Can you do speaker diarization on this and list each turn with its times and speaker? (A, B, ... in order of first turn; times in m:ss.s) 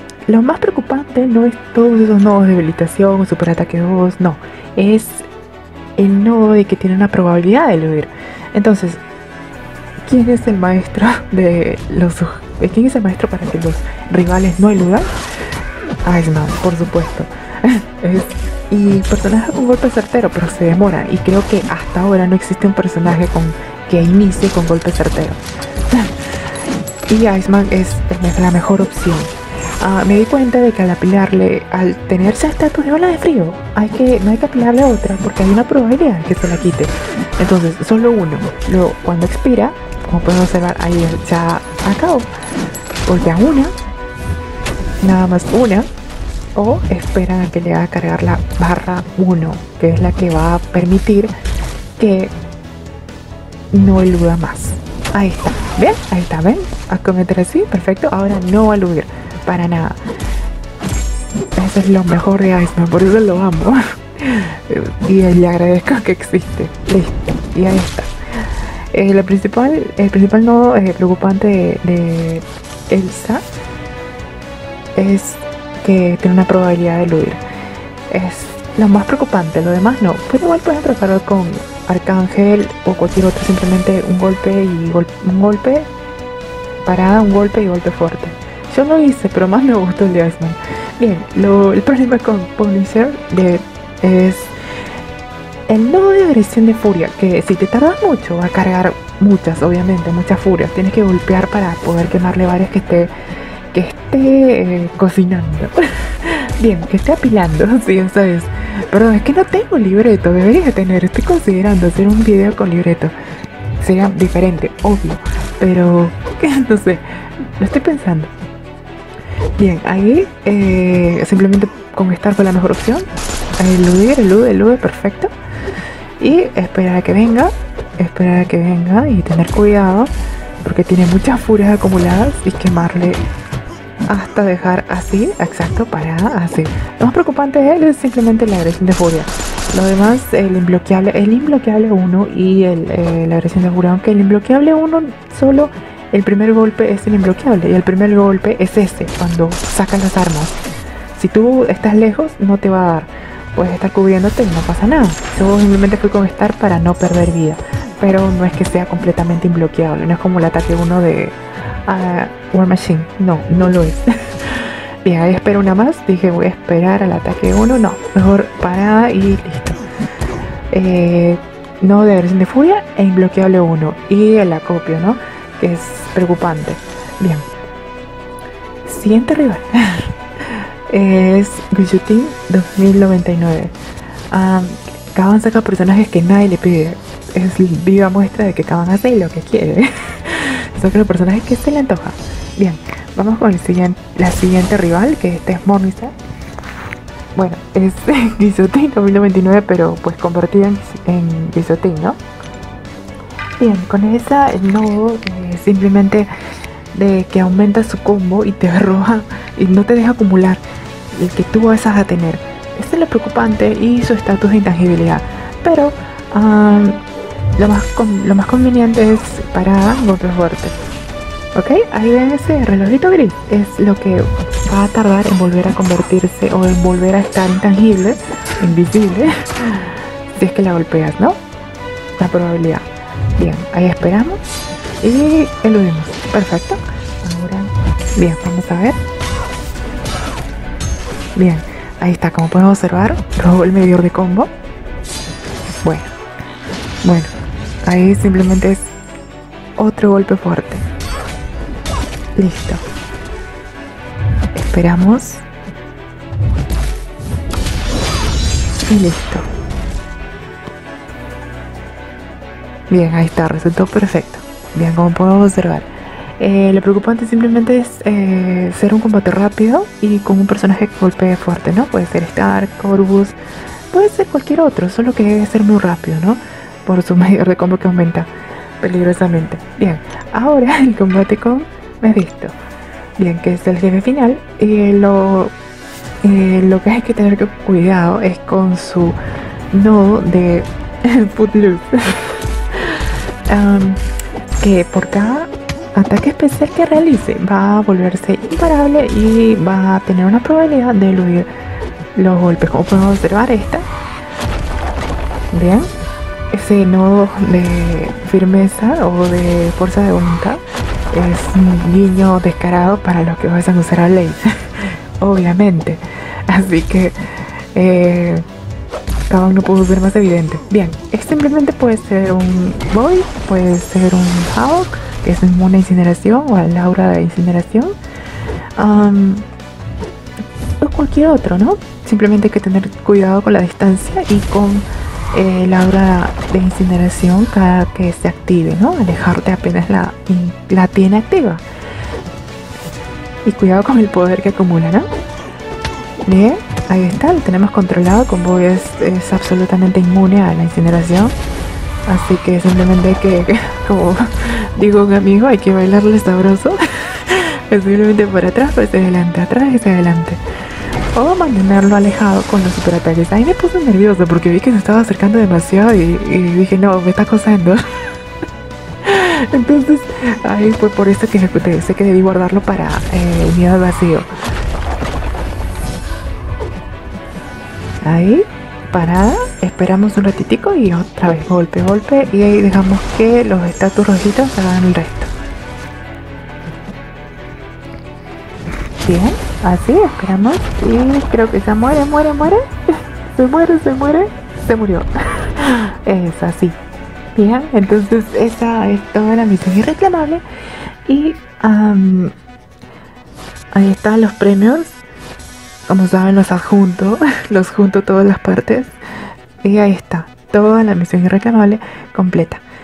0:00.3-0:05.3 A
0:06.0-0:09.0 A
0:10.0-0:15.1 A
0:16.0-0:25.4 A
0:25.9-0:26.2 A
0:27.1-0:42.3 A
0:43.0-0:43.7 A
0:45.0-0:45.9 A
0:46.5-0:51.3 A
0:52.0-0:52.3 A
0:53.7-1:00.0 A
1:01.6-1:08.1 A
1:08.9-1:13.4 A
1:15.0-1:17.4 A
1:18.1-1:25.9 A
1:26.8-1:34.5 A
1:35.7-1:43.1 A
1:43.7-1:53.1 A
1:53.8-1:58.3 A
1:59.6-2:03.1 A
2:03.6-2:05.3 A
2:06.2-2:10.1 A
2:10.6-2:13.2 A
2:14.1-2:30.5 A
2:31.1-2:49.8 A
2:50.7-2:57.4 A
2:58.8-3:03.7 A
3:04.3-3:16.1 A
3:17.3-3:22.2 A
3:23.6-3:26.3 A
3:26.9-3:37.0 A
3:37.6-3:40.8 A
3:41.5-3:51.4 A
3:52.2-3:52.8 A
3:53.4-3:54.4 A
3:55.0-3:59.0 A
4:01.4-4:04.5 A
4:05.8-4:06.1 A
4:07.0-4:07.3 A
4:07.8-4:08.9 A
4:09.8-4:10.8 A
4:12.4-4:12.8 A
4:14.5-4:15.4 A
4:18.9-4:19.5 A
4:22.9-4:25.9 A
4:26.4-4:33.4 A
4:33.9-4:38.3 A
4:38.8-4:42.6 A
4:43.2-4:45.5 A
4:46.2-4:49.2 A
4:49.7-4:54.0 A
4:54.6-5:01.5 A
5:02.1-5:03.9 A
5:05.5-5:05.9 A
5:06.5-5:10.6 A
5:11.1-5:14.5 A
5:15.2-5:17.2 A
5:17.7-5:18.4 A
5:19.3-5:28.0 A
5:28.8-5:29.4 A
5:30.8-5:41.6 A
5:43.4-5:45.1 A
5:46.2-5:51.3 A
5:52.1-6:00.4 A
6:01.1-6:07.8 A
6:09.0-6:14.3 A
6:18.0-6:25.3 A
6:29.0-6:36.8 A
6:37.3-6:40.4 A
6:41.0-6:42.3 A
6:43.7-6:45.0 A
6:45.9-6:48.9 A
6:49.6-6:52.6 A